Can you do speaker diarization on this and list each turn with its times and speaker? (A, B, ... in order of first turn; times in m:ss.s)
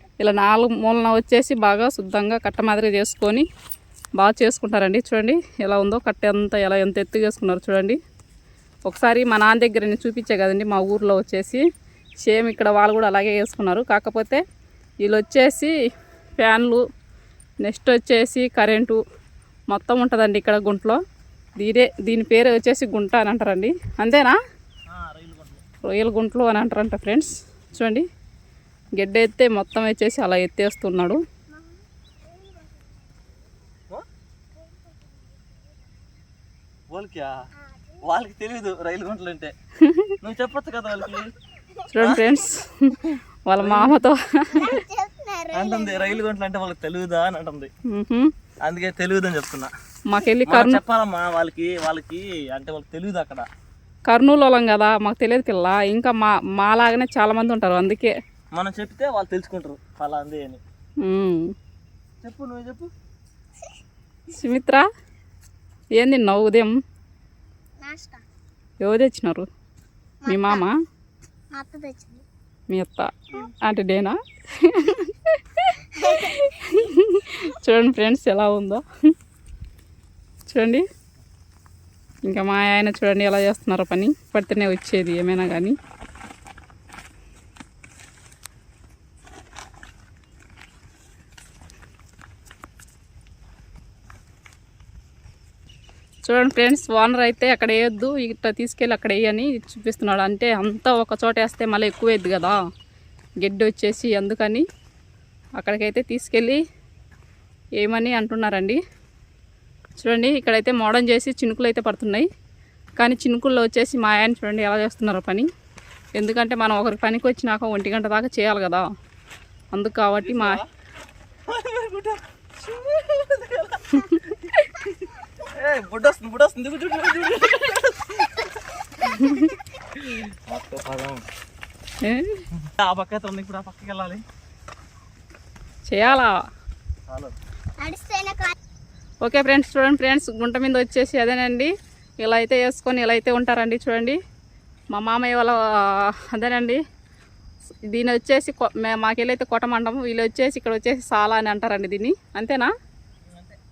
0:00.2-0:03.4 A
0:04.2-0:08.0 A
0:08.9-0:11.6 A
0:12.2-0:14.4 A
0:15.0-0:15.7 A
0:16.4-0:16.8 A
0:17.6-0:19.0 A
0:19.7-0:21.0 A
0:21.6-0:24.4 A
0:24.9-0:25.6 B
0:25.8-0:28.0 A
0:29.0-0:31.2 A
0:31.5-0:33.4 C
0:34.6-0:35.6 C
0:36.9-0:37.3 B
0:37.7-0:38.0 C
0:38.0-0:39.5 B
0:39.8-0:40.2 A
0:40.2-0:41.3 B
0:41.9-0:44.7 A
0:42.0-0:42.2 B
0:43.0-0:44.0 B
0:44.5-0:46.2 C
0:45.5-0:47.7 B
0:47.9-0:48.3 A
0:48.6-0:49.7 B
0:50.1-0:50.8 A
0:50.5-0:53.5 B
0:54.1-0:58.1 A
0:58.5-1:00.6 B
1:01.0-1:01.5 A
1:02.2-1:02.9 B
1:04.3-1:04.8 A
1:06.0-1:06.7 A
1:07.8-1:08.2 C
1:08.8-1:09.5 A
1:10.2-1:10.7 C
1:10.3-1:10.7 A
1:11.5-1:12.2 C
1:12.7-1:18.8 A
1:16.0-1:16.9 C
1:20.5-1:20.8 A
1:22.3-1:25.8 A
1:36.2-1:42.6 A
1:43.4-1:44.6 A
1:45.6-1:46.6 A
1:47.8-1:48.8 A
1:50.0-1:52.3 A
1:53.0-1:55.5 A
1:56.2-1:58.9 A
1:59.7-2:00.6 A
2:00.2-2:00.7 B
2:01.5-2:09.4 B
2:09.9-2:11.2 B
2:12.0-2:12.4 A
2:12.5-2:14.2 B
2:15.9-2:16.3 A
2:17.1-2:17.4 B
2:17.8-2:18.6 C
2:19.2-2:24.2 A
2:24.9-2:26.8 A
2:27.9-2:32.7 A
2:33.3-2:33.6 B